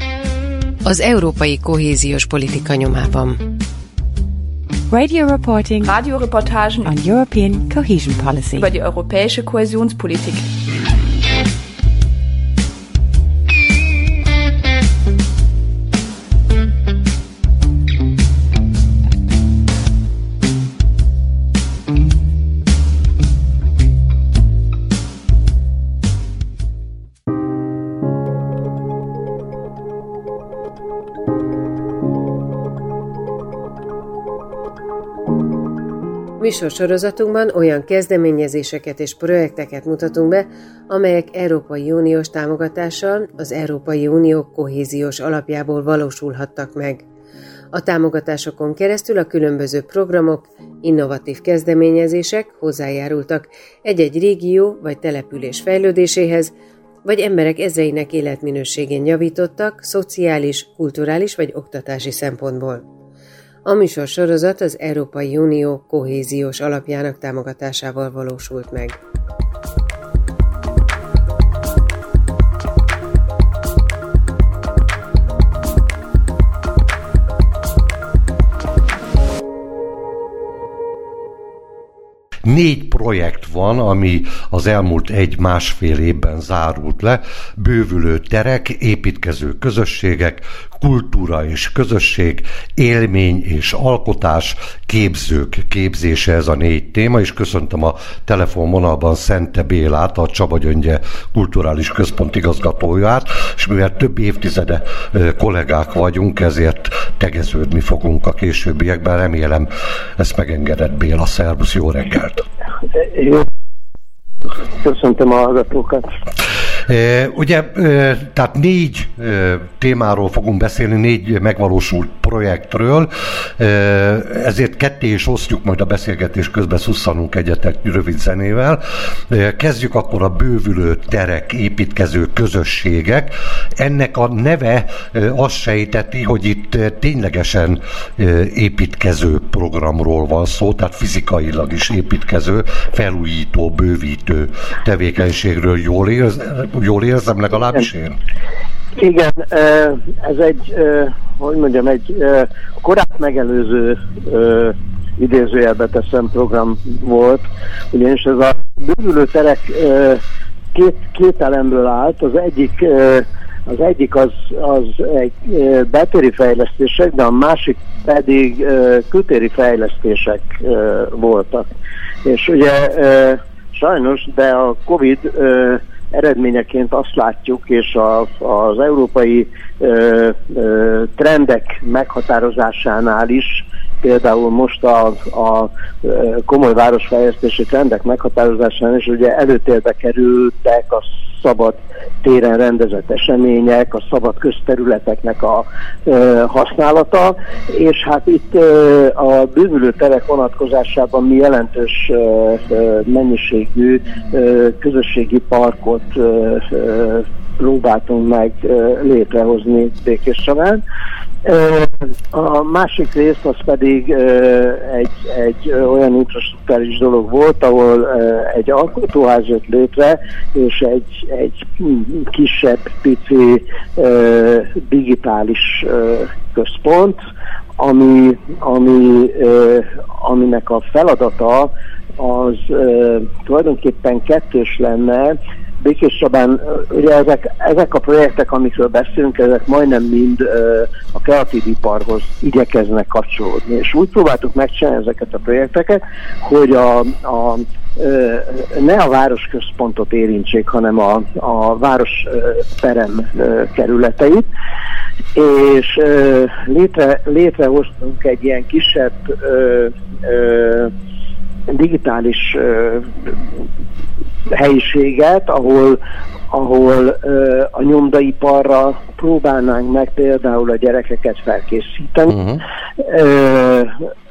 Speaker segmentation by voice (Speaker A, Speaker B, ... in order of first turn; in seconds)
Speaker A: 0.8-3.4, 36.4-47.1, 47.7-62.9, 63.6-69.0
Speaker B: 4.9-6.0, 6.8-8.7
Speaker C: 5.8-6.9, 8.5-10.5
Speaker D: 82.4-112.5, 116.8-148.2, 272.3-272.6
Speaker E: 113.0-113.5, 114.7-116.2, 148.9-160.2, 160.7-171.7, 172.2-210.8, 211.4-227.2, 227.8-254.5, 255.3-260.9, 261.7-263.3, 264.5-266.0, 266.5-272.4, 273.0-273.9